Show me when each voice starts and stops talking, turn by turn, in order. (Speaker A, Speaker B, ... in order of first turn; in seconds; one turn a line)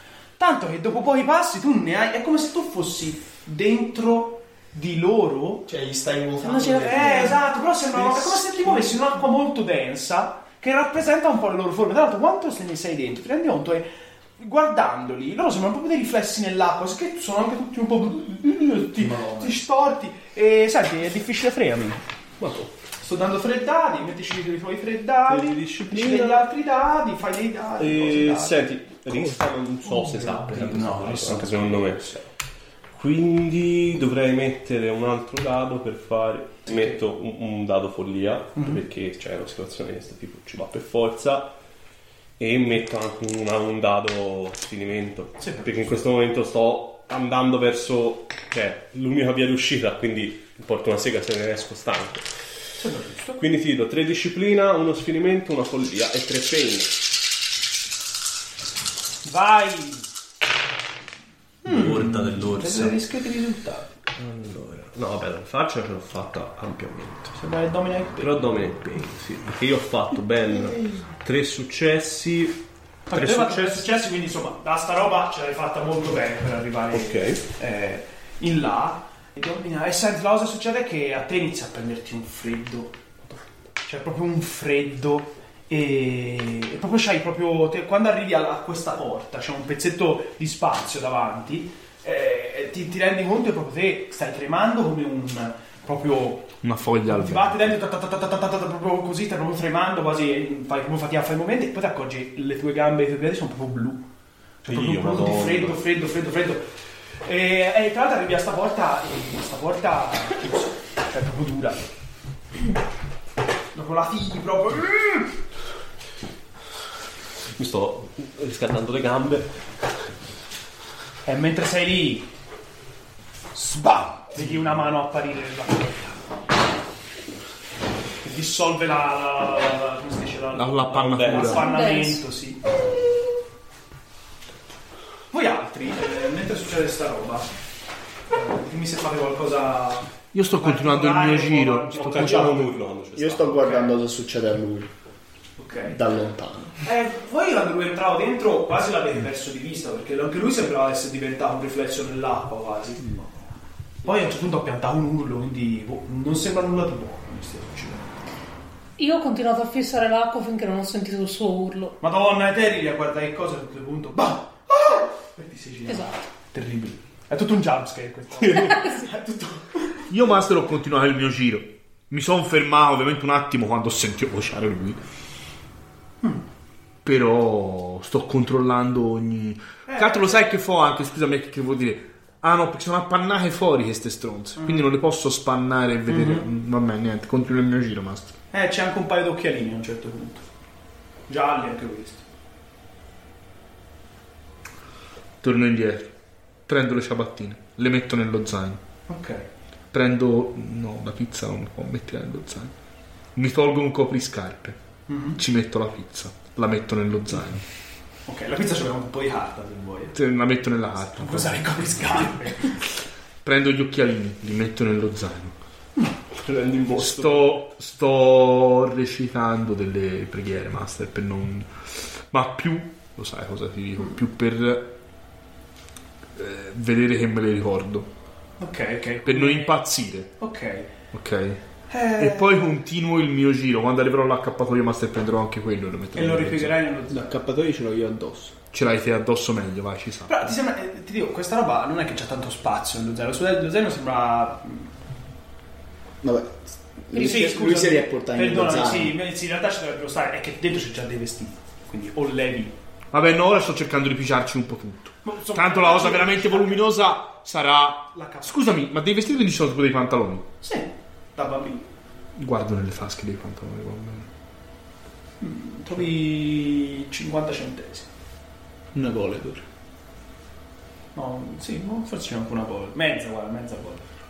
Speaker A: 0.4-5.7
Speaker B: 5.7-7.4
Speaker C: 6.4-7.4
Speaker A: 6.5-13.9
Speaker B: 8.0-9.0
Speaker A: 14.4-22.0
Speaker B: 19.0-19.6
Speaker D: 22.4-22.7
Speaker A: 23.0-28.6
Speaker D: 25.2-26.4
Speaker D: 27.8-32.1
Speaker A: 29.8-32.2
Speaker D: 32.9-41.5
Speaker A: 36.7-37.0
Speaker D: 42.4-52.2
Speaker A: 45.4-45.9
Speaker A: 52.8-53.4
Speaker D: 53.4-57.0
Speaker A: 59.2-60.0
Speaker A: 61.6-63.9
Speaker D: 61.6-63.0
Speaker D: 64.1-67.3
Speaker A: 67.3-68.4
Speaker D: 68.2-72.6
Speaker A: 73.1-83.0
Speaker D: 73.1-74.0
Speaker D: 76.9-77.4
Speaker A: 83.8-96.5
Speaker E: 96.6-97.7
Speaker A: 97.1-104.0
Speaker A: 104.6-106.6
Speaker D: 104.7-105.8
Speaker A: 107.2-111.8
Speaker A: 113.7-115.3
Speaker D: 117.5-119.5
Speaker A: 121.2-122.2
Speaker A: 123.5-126.2
Speaker A: 128.2-132.6
Speaker E: 130.5-131.6
Speaker D: 131.1-131.6
Speaker C: 131.3-132.2
Speaker A: 135.3-137.5
Speaker A: 138.3-142.7
Speaker E: 140.3-142.6
Speaker D: 141.9-143.7
Speaker B: 143.2-144.9
Speaker A: 143.6-143.9
Speaker A: 145.6-146.0
Speaker B: 145.8-146.8
Speaker A: 146.8-153.2
Speaker A: 154.0-158.0
Speaker C: 159.0-162.0
Speaker A: 162.0-170.0
Speaker C: 165.9-166.1
Speaker D: 168.4-168.7
Speaker E: 170.1-175.0
Speaker E: 177.0-188.4
Speaker A: 179.9-180.4
Speaker A: 184.6-184.9
Speaker A: 186.1-186.4
Speaker A: 188.5-190.4
Speaker A: 191.3-192.2
Speaker E: 195.4-196.1
Speaker E: 196.7-198.8
Speaker A: 199.1-199.4
Speaker E: 199.9-202.7
Speaker E: 203.3-204.8
Speaker A: 205.1-205.4
Speaker E: 205.4-207.6
Speaker A: 208.2-210.2
Speaker E: 210.1-212.3
Speaker A: 211.1-212.8
Speaker E: 213.4-215.5
Speaker D: 216.3-217.6
Speaker E: 216.9-224.9
Speaker E: 226.3-228.1
Speaker A: 228.6-229.8
Speaker E: 229.2-230.3
Speaker A: 230.4-230.9
Speaker E: 231.1-231.6
Speaker A: 231.9-232.6
Speaker E: 232.2-236.8
Speaker A: 236.1-237.3
Speaker B: 237.1-238.6
Speaker E: 238.7-240.5
Speaker A: 240.3-244.9
Speaker B: 246.2-249.2
Speaker C: 247.1-247.6
Speaker A: 247.1-252.7
Speaker E: 253.1-260.5
Speaker A: 255.2-256.8
Speaker A: 258.1-258.6
Speaker A: 260.6-261.8
Speaker E: 262.4-264.3
Speaker A: 265.4-268.1
Speaker B: 268.9-269.6
Speaker A: 271.1-274.0